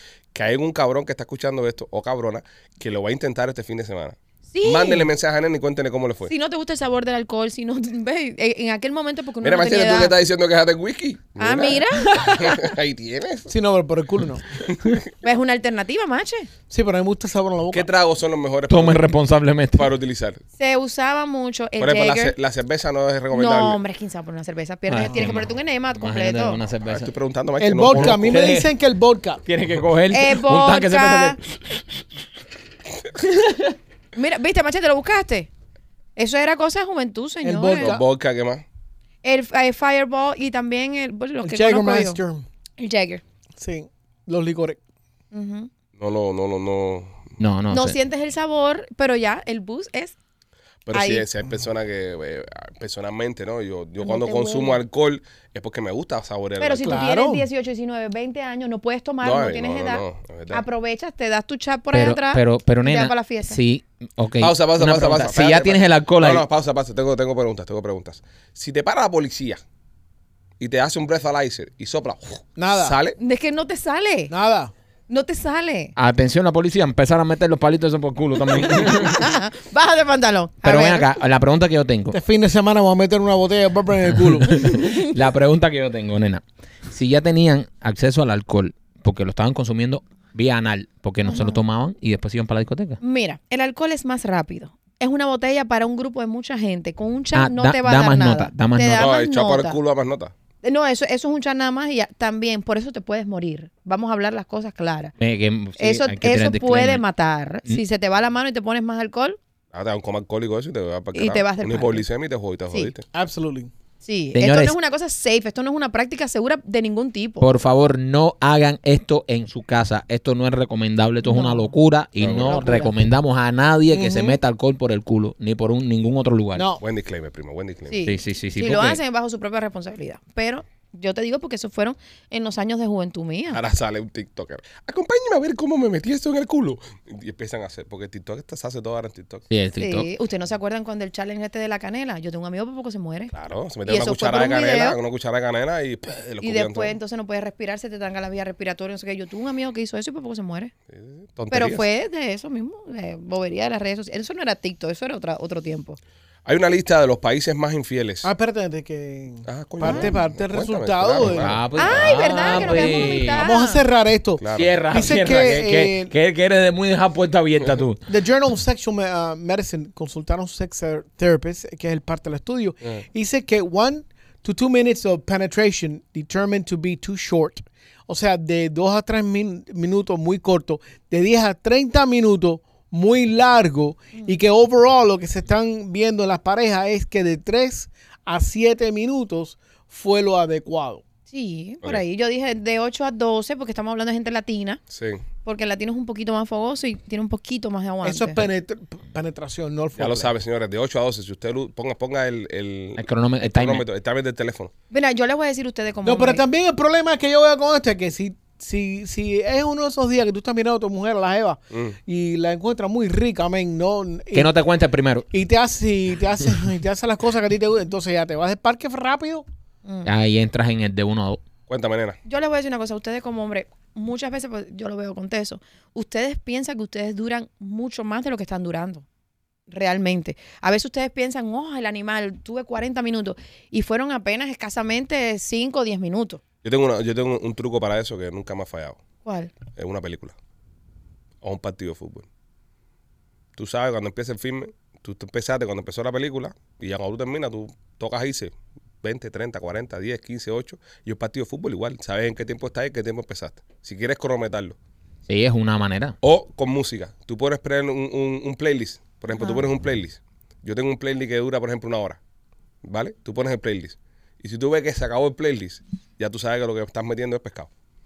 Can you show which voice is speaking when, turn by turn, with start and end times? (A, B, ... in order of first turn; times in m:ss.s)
0:00.3-0:06.3 A
0:04.5-0:05.1 B
0:06.3-0:10.2 B
0:09.4-0:13.5 A
0:11.4-0:12.6 B
0:13.5-0:14.5 C
0:14.7-0:15.0 A
0:15.2-0:16.5 B
0:16.7-0:17.9 C
0:17.7-0:19.2 A
0:18.7-0:19.9 D
0:19.7-0:20.4 A
0:20.6-0:22.4 B
0:21.8-0:23.8 A
0:23.3-0:26.6 B
0:24.9-0:27.1 D
0:26.8-0:28.5 A
0:27.6-0:29.4 C
0:27.9-0:28.7 D
0:29.4-0:31.8 D
0:30.1-0:31.4 B
0:33.2-0:33.7 D
0:34.2-0:35.5 B
0:36.2-0:37.9 B
0:37.4-0:38.0 C
0:37.8-0:38.6 A
0:39.2-0:42.2 B
0:41.4-0:42.5 C
0:42.8-0:43.2 B
0:43.6-0:44.8 C
0:45.3-0:45.7 B
0:46.0-0:47.2 A
0:47.4-0:48.0 D
0:47.7-0:50.2 B
0:50.9-0:57.0 A
0:50.9-0:51.3 B
0:54.0-0:54.8 B
0:56.6-1:03.6 B
0:56.8-0:57.5 C
0:59.2-1:00.6 A
1:01.9-1:06.4 D
1:04.4-1:09.6 A
1:10.6-1:13.2 A
1:12.6-1:13.0 C
1:13.2-1:14.3 B
1:14.3-1:14.7 C
1:15.1-1:15.9 B
1:16.0-1:19.2 D
1:18.7-1:21.1 B
1:20.6-1:22.2 D
1:22.1-1:24.8 C
1:24.5-1:33.0 D
1:24.7-1:25.1 B
1:31.3-1:31.6 B
1:33.0-1:39.8 B
1:37.3-1:39.1 D
1:39.0-1:40.3 A
1:40.6-1:45.1 B
1:45.2-1:47.0 D
1:45.8-1:49.4 B
1:49.7-1:53.1 A
1:51.1-1:52.0 B
1:53.1-1:53.7 C
1:54.0-1:57.5 B
1:54.3-1:54.8 D
1:57.4-2:06.6 D
2:01.2-2:03.0 B
2:02.2-2:02.5 A
2:03.9-2:04.4 C
2:06.6-2:06.8 C
2:06.8-2:08.1 A
2:07.9-2:13.6 B
2:08.0-2:09.0 D
2:13.5-2:19.4 A
2:19.5-2:20.1 D
2:19.8-2:23.3 B
2:23.3-2:27.0 A
2:23.9-2:25.0 B
2:26.4-2:30.7 B
2:30.9-2:31.8 A
2:31.5-2:36.0 B
2:36.5-2:38.3 A
2:38.2-2:41.6 C
2:39.5-2:43.1 A
2:39.8-2:40.1 B
2:41.2-2:43.5 D
2:41.8-2:43.8 B
2:43.4-2:46.1 C
2:44.4-2:44.7 A
2:44.6-2:48.0 D
2:48.1-3:11.0 C
3:11.3-3:14.8 B
3:14.9-3:15.2 A
3:15.4-3:18.5 B
3:18.0-3:20.3 C
3:20.0-3:24.7 A
3:23.0-3:23.9 D
3:24.9-3:26.4 B
3:26.0-3:34.6 C
3:31.7-3:32.0 A
3:34.3-3:35.3 D
3:35.3-3:39.5 C
3:39.8-3:40.1 B
3:40.0-3:41.4 D
3:41.7-3:42.2 A
3:42.3-3:49.0 B
3:49.7-3:56.4 B
3:56.6-3:59.0 A
3:59.2-3:59.6 B
3:59.7-4:00.4 A
4:01.4-4:02.3 A
4:03.6-4:14.8 A
4:15.3-4:16.2 D
4:16.2-4:22.2 A
4:19.4-4:19.6 B
4:22.8-4:27.7 A